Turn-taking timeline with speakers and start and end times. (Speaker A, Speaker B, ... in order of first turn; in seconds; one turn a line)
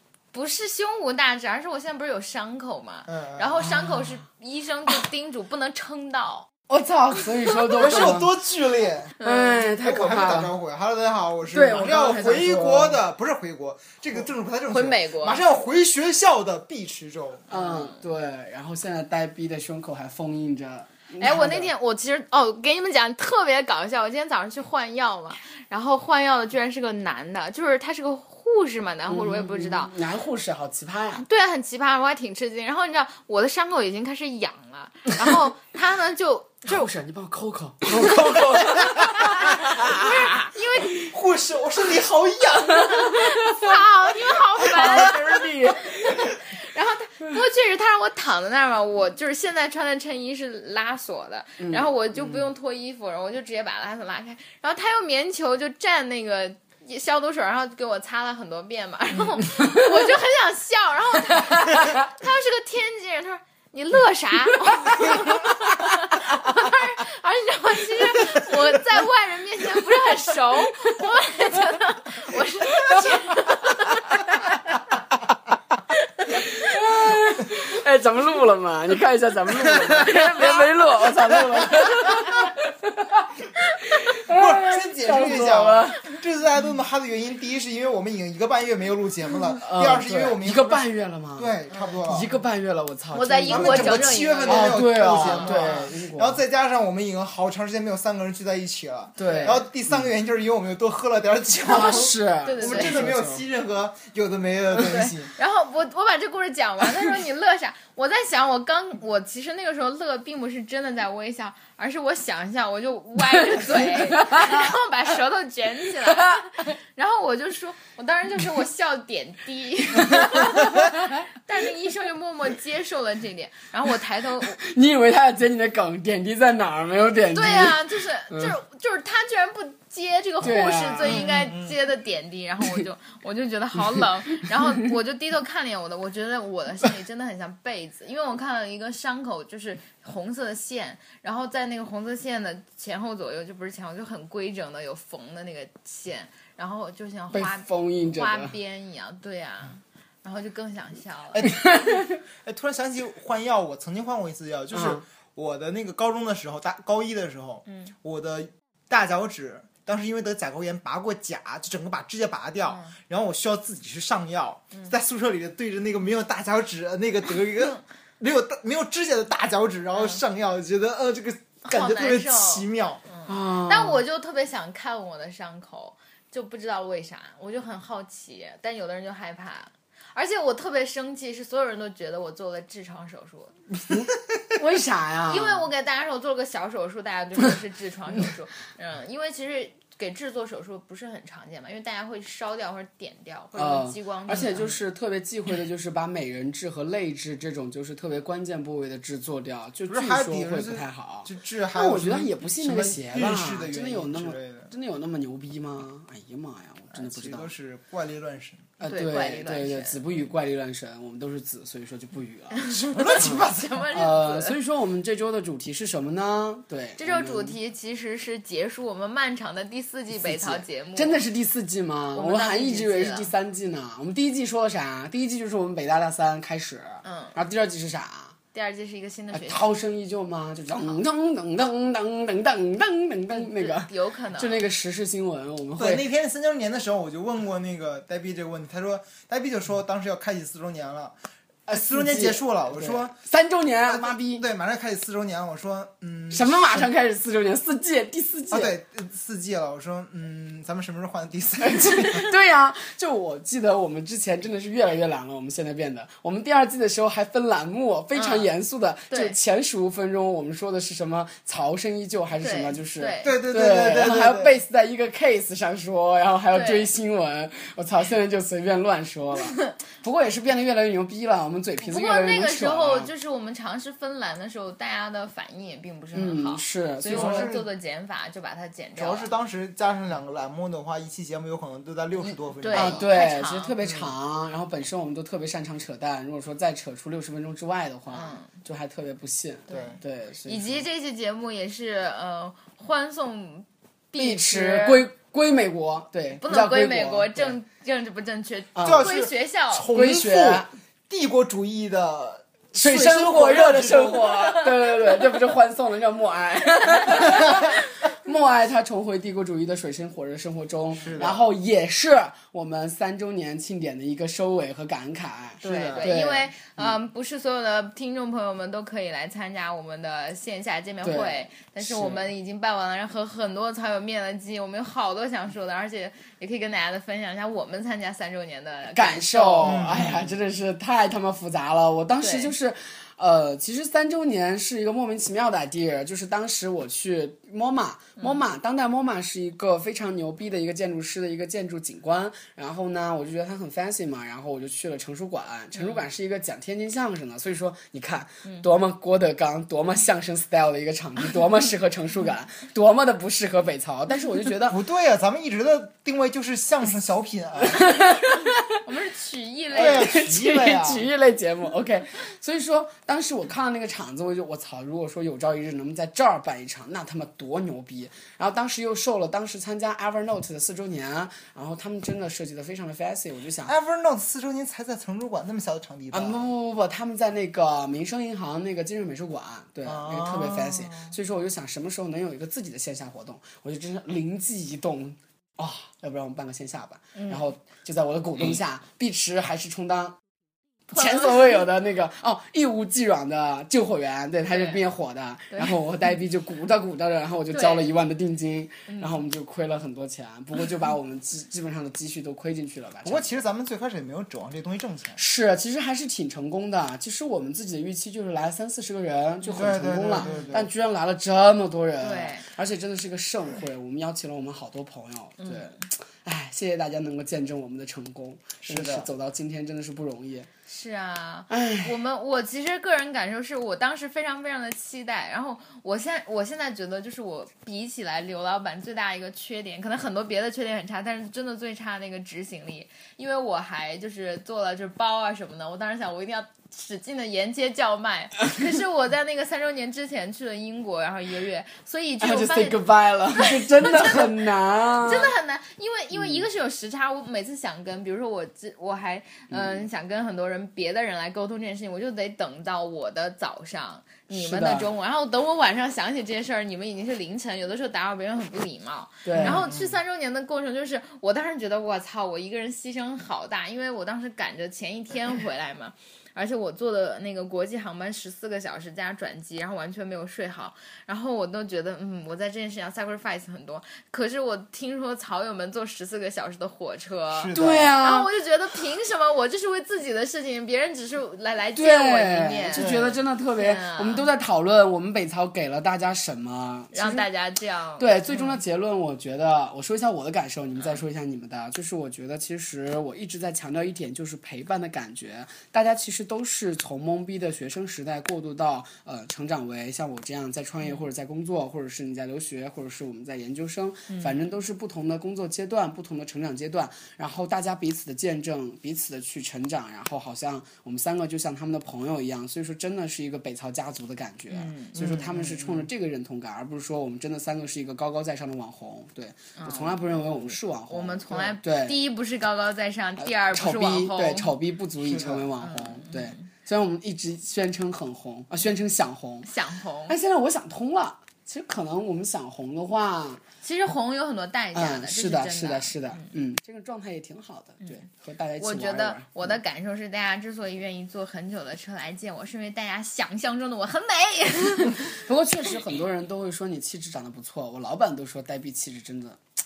Speaker A: 0.3-6.5
Speaker B: 3.0-3.7
Speaker C: 3.6-4.0
Speaker C: 6.7-8.3
Speaker A: 7.4-8.1
Speaker B: 7.8-9.1
Speaker A: 9.2-9.6
Speaker C: 9.2-10.5
Speaker B: 9.8-17.6
Speaker C: 11.5-13.0
Speaker A: 14.7-15.4
Speaker C: 17.5-21.7
Speaker A: 21.2-29.9
Speaker C: 29.1-31.2
Speaker A: 31.2-36.7
Speaker C: 36.6-40.3
Speaker B: 38.0-40.1
Speaker A: 39.9-41.0
Speaker B: 40.9-43.2
Speaker A: 43.0-74.3
Speaker C: 44.6-46.0
Speaker C: 51.6-51.9
Speaker C: 76.2-86.1
Speaker B: 84.3-92.3
Speaker C: 89.5-91.5
Speaker A: 91.7-92.0
Speaker C: 92.0-96.4
Speaker A: 93.1-95.8
Speaker B: 93.5-105.3
Speaker C: 99.2-100.0
Speaker A: 99.2-99.6
Speaker C: 101.6-103.4
Speaker A: 102.4-103.0
Speaker A: 104.8-124.6
Speaker C: 113.6-114.7
Speaker C: 116.1-116.4
Speaker C: 120.0-120.9
Speaker C: 124.5-128.5
Speaker A: 127.3-151.4
Speaker C: 130.4-131.3
Speaker B: 131.0-131.8
Speaker C: 147.3-148.5
Speaker B: 151.3-173.0
Speaker C: 151.5-152.0
Speaker C: 154.7-155.0
Speaker A: 162.7-162.9
Speaker A: 171.7-183.5
Speaker C: 173.2-174.0
Speaker C: 183.7-185.7
Speaker A: 185.3-194.7
Speaker C: 193.5-207.5
Speaker B: 199.9-204.7
Speaker B: 206.9-208.7
Speaker C: 208.8-212.6
Speaker A: 208.8-210.0
Speaker A: 212.5-214.6
Speaker B: 212.7-213.9
Speaker C: 213.2-217.6
Speaker A: 217.0-221.2
Speaker C: 220.1-228.3
Speaker A: 222.1-223.3
Speaker A: 227.0-227.4
Speaker A: 228.5-229.6
Speaker C: 229.3-236.1
Speaker A: 233.3-234.6
Speaker B: 235.8-241.1
Speaker B: 241.7-243.1
Speaker C: 241.7-244.5
Speaker B: 243.9-246.9
Speaker C: 246.3-248.7
Speaker B: 248.5-252.3
Speaker C: 251.6-273.1
Speaker A: 258.1-258.5
Speaker A: 259.1-259.4
Speaker A: 262.4-263.3
Speaker B: 263.2-264.6
Speaker A: 266.5-266.9
Speaker A: 271.8-279.3
Speaker C: 276.1-277.5
Speaker B: 277.0-277.7
Speaker B: 278.9-283.0
Speaker A: 282.6-283.7
Speaker C: 282.7-290.8
Speaker B: 283.8-284.1
Speaker A: 288.1-288.5
Speaker A: 289.7-289.9
Speaker B: 289.7-289.9
Speaker A: 290.5-295.1
Speaker C: 294.2-297.6
Speaker A: 296.4-299.9
Speaker C: 298.8-299.1
Speaker B: 298.8-304.5
Speaker C: 299.9-300.7
Speaker C: 302.7-316.8
Speaker A: 304.5-305.1
Speaker A: 307.0-307.6
Speaker B: 311.0-311.5
Speaker B: 315.6-316.2
Speaker A: 315.6-330.0
Speaker C: 321.0-322.3
Speaker C: 328.9-354.8
Speaker B: 329.6-330.4
Speaker A: 332.2-332.5
Speaker A: 345.7-346.0
Speaker B: 354.7-358.0
Speaker C: 357.7-358.8
Speaker A: 358.8-360.1
Speaker C: 359.7-373.7
Speaker B: 359.7-361.1
Speaker B: 373.6-376.4
Speaker C: 376.1-390.1
Speaker B: 379.8-381.1
Speaker A: 387.1-387.4
Speaker C: 390.9-403.3
Speaker A: 390.9-391.6
Speaker A: 394.5-394.8
Speaker A: 397.5-397.9
Speaker A: 398.9-399.1
Speaker B: 403.0-405.2
Speaker C: 405.2-420.5
Speaker A: 409.4-409.7
Speaker B: 409.5-410.7
Speaker A: 410.2-410.5
Speaker A: 412.0-412.5
Speaker A: 415.4-415.7
Speaker B: 418.6-419.1
Speaker A: 420.7-442.8
Speaker C: 421.5-421.9
Speaker C: 442.2-445.3
Speaker A: 443.3-444.3
Speaker A: 445.0-483.0
Speaker C: 446.1-446.4
Speaker C: 454.3-454.9
Speaker C: 459.2-459.7
Speaker B: 459.4-460.0
Speaker B: 477.3-478.0
Speaker C: 477.5-478.3
Speaker C: 481.8-487.3
Speaker B: 482.7-483.2
Speaker A: 483.6-484.3
Speaker A: 486.9-488.6
Speaker C: 488.0-522.0
Speaker A: 504.1-504.4
Speaker A: 514.5-515.0
Speaker B: 514.9-515.9
Speaker A: 519.6-524.5
Speaker C: 523.2-529.5
Speaker B: 525.0-525.5
Speaker A: 525.6-526.4
Speaker A: 529.4-530.1
Speaker C: 530.1-533.4
Speaker A: 533.6-536.3
Speaker C: 534.7-539.5
Speaker A: 538.6-545.2
Speaker C: 545.0-549.4